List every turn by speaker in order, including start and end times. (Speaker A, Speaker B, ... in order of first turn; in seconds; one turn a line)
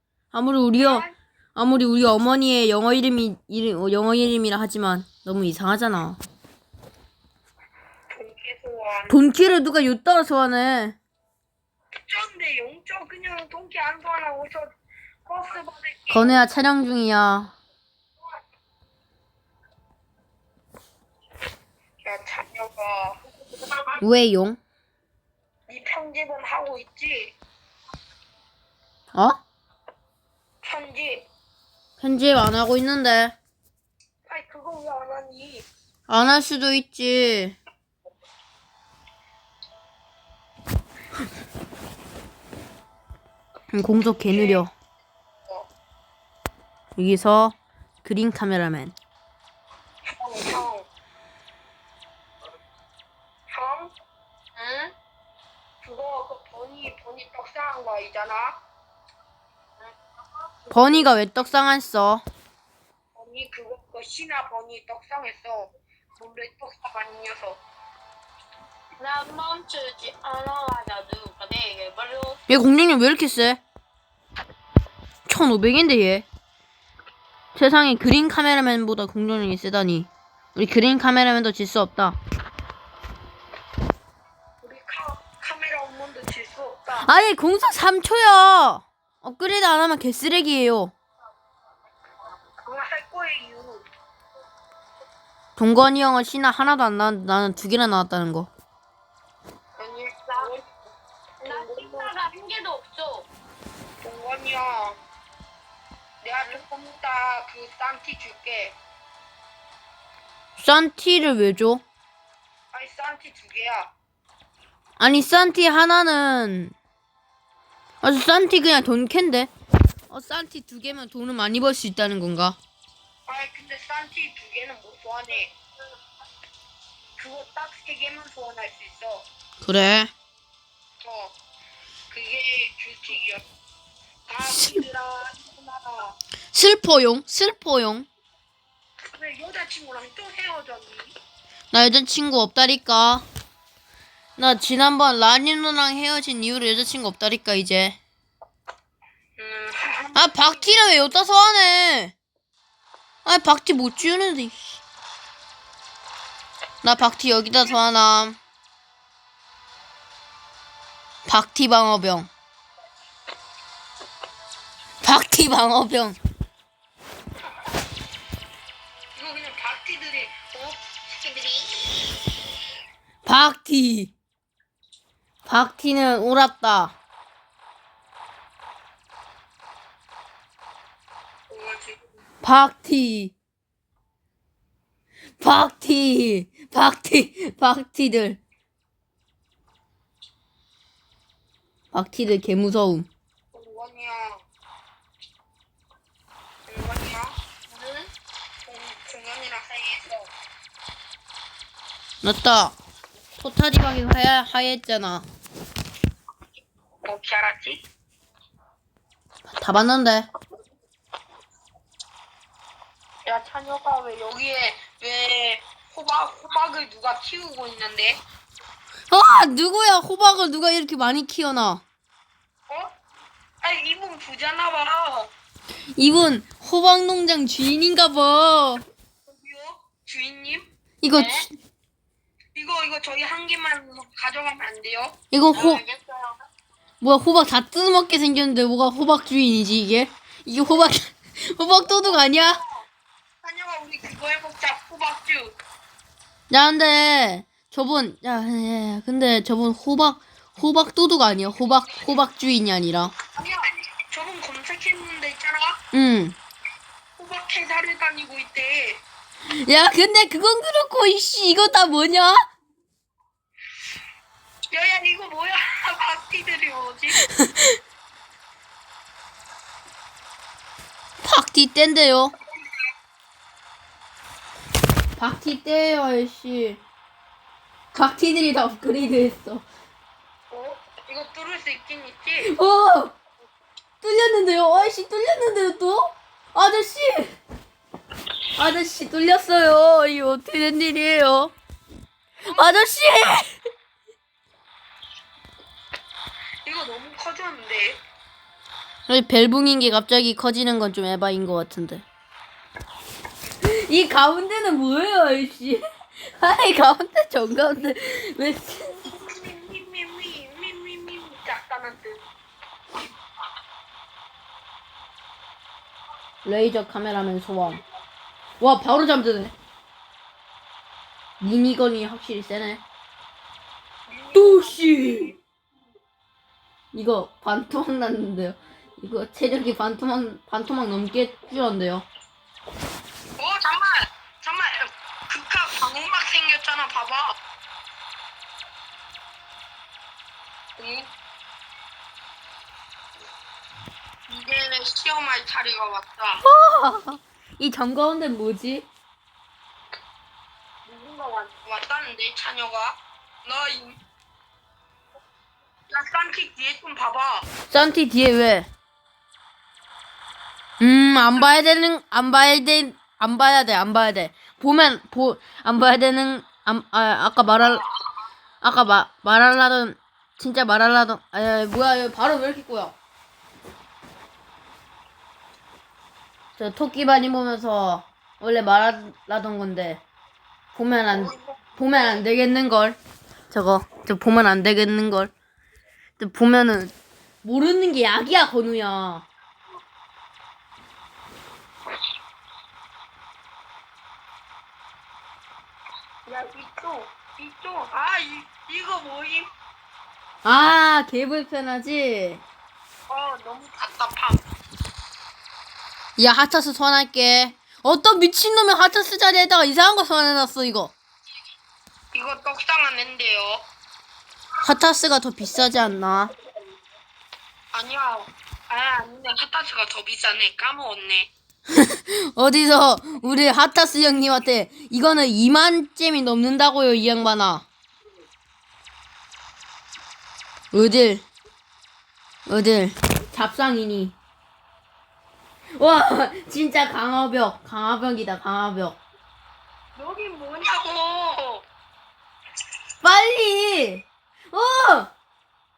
Speaker A: 0.3-6.2
Speaker B: 0.8-1.1
Speaker B: 8.1-9.2
Speaker A: 9.1-11.0
Speaker B: 12.1-14.7
Speaker B: 15.3-16.4
Speaker A: 16.1-17.6
Speaker B: 22.0-24.0
Speaker A: 24.0-24.6
Speaker B: 25.7-27.3
Speaker A: 29.1-29.4
Speaker B: 30.6-31.3
Speaker A: 32.0-33.4
Speaker B: 34.3-35.7
Speaker A: 36.1-37.6
Speaker A: 43.7-44.7
Speaker B: 44.2-44.6
Speaker A: 47.0-49.0
Speaker B: 50.1-50.9
Speaker B: 53.5-53.9
Speaker C: 54.6-54.9
Speaker B: 55.8-58.6
Speaker A: 60.7-62.2
Speaker B: 63.1-67.6
Speaker C: 69.0-72.4
Speaker A: 72.5-73.6
Speaker A: 75.3-76.3
Speaker A: 77.5-82.2
Speaker B: 84.6-87.1
Speaker A: 87.0-90.9
Speaker B: 92.7-93.8
Speaker A: 95.6-98.5
Speaker B: 99.8-100.7
Speaker B: 101.4-102.1
Speaker C: 101.4-103.3
Speaker B: 104.0-105.0
Speaker B: 106.2-108.8
Speaker A: 110.6-111.8
Speaker B: 112.7-113.9
Speaker A: 115.0-116.8
Speaker A: 118.0-119.5
Speaker A: 120.1-122.6
Speaker B: 123.3-125.5
Speaker B: 127.2-129.3
Speaker A: 129.6-130.1
Speaker B: 131.0-131.3
Speaker B: 132.1-133.4
Speaker B: 134.3-136.2
Speaker A: 134.5-134.8
Speaker A: 136.5-138.1
Speaker B: 139.1-141.1
Speaker A: 141.7-143.3
Speaker A: 144.4-148.0
Speaker B: 149.4-150.7
Speaker A: 150.2-152.2
Speaker A: 153.2-154.8
Speaker A: 156.8-158.4
Speaker A: 161.3-162.3
Speaker A: 165.0-166.2
Speaker B: 169.2-171.9
Speaker A: 173.2-174.1
Speaker A: 175.5-176.9
Speaker B: 181.5-182.0
Speaker A: 182.4-183.3
Speaker A: 185.4-188.4
Speaker A: 191.9-193.1
Speaker B: 193.5-194.4
Speaker B: 196.7-198.1
Speaker B: 198.7-200.3
Speaker A: 202.2-202.8
Speaker A: 203.4-205.3
Speaker B: 207.1-207.8
Speaker A: 209.5-210.3
Speaker B: 213.3-218.2
Speaker A: 219.1-221.8
Speaker B: 222.7-222.9
Speaker B: 223.6-225.3
Speaker A: 226.0-228.8
Speaker B: 229.3-230.7
Speaker A: 231.0-231.5
Speaker C: 231.1-231.5
Speaker B: 232.6-235.2
Speaker A: 235.3-235.8
Speaker C: 235.5-236.4
Speaker A: 237.0-242.6
Speaker B: 242.0-242.8
Speaker B: 243.4-245.6
Speaker A: 246.5-253.1
Speaker B: 253.3-255.8
Speaker A: 255.9-256.4
Speaker B: 257.2-259.0
Speaker A: 259.5-262.4
Speaker B: 264.7-267.2
Speaker A: 267.3-267.8
Speaker A: 271.2-272.3
Speaker A: 275.2-276.8
Speaker A: 277.9-279.6
Speaker B: 280.5-282.5
Speaker A: 282.4-283.2
Speaker A: 284.0-287.4
Speaker A: 288.6-291.5
Speaker A: 292.5-293.6
Speaker B: 296.6-298.0
Speaker A: 299.1-302.0
Speaker A: 303.6-309.0
Speaker B: 309.0-312.2
Speaker A: 316.4-317.8
Speaker A: 318.6-319.5
Speaker A: 321.4-322.8
Speaker B: 324.1-325.4
Speaker A: 324.3-325.3
Speaker A: 326.9-332.1
Speaker B: 333.4-337.4
Speaker B: 340.8-341.1
Speaker B: 344.3-346.4
Speaker A: 346.4-348.9
Speaker B: 350.9-354.0
Speaker B: 355.9-357.5
Speaker A: 357.7-358.7
Speaker A: 360.8-367.8
Speaker A: 368.6-372.9
Speaker A: 376.6-380.0
Speaker A: 380.7-383.0
Speaker B: 381.1-381.6
Speaker A: 383.5-385.3
Speaker A: 386.2-389.3
Speaker B: 396.3-399.5
Speaker A: 400.4-402.4
Speaker B: 403.1-404.4
Speaker A: 406.2-410.9
Speaker B: 412.1-413.7
Speaker A: 414.6-416.3
Speaker B: 417.7-421.3
Speaker A: 421.8-427.7
Speaker A: 430.7-431.2
Speaker A: 432.5-434.1
Speaker A: 435.8-439.0
Speaker B: 440.0-441.6
Speaker A: 443.0-445.1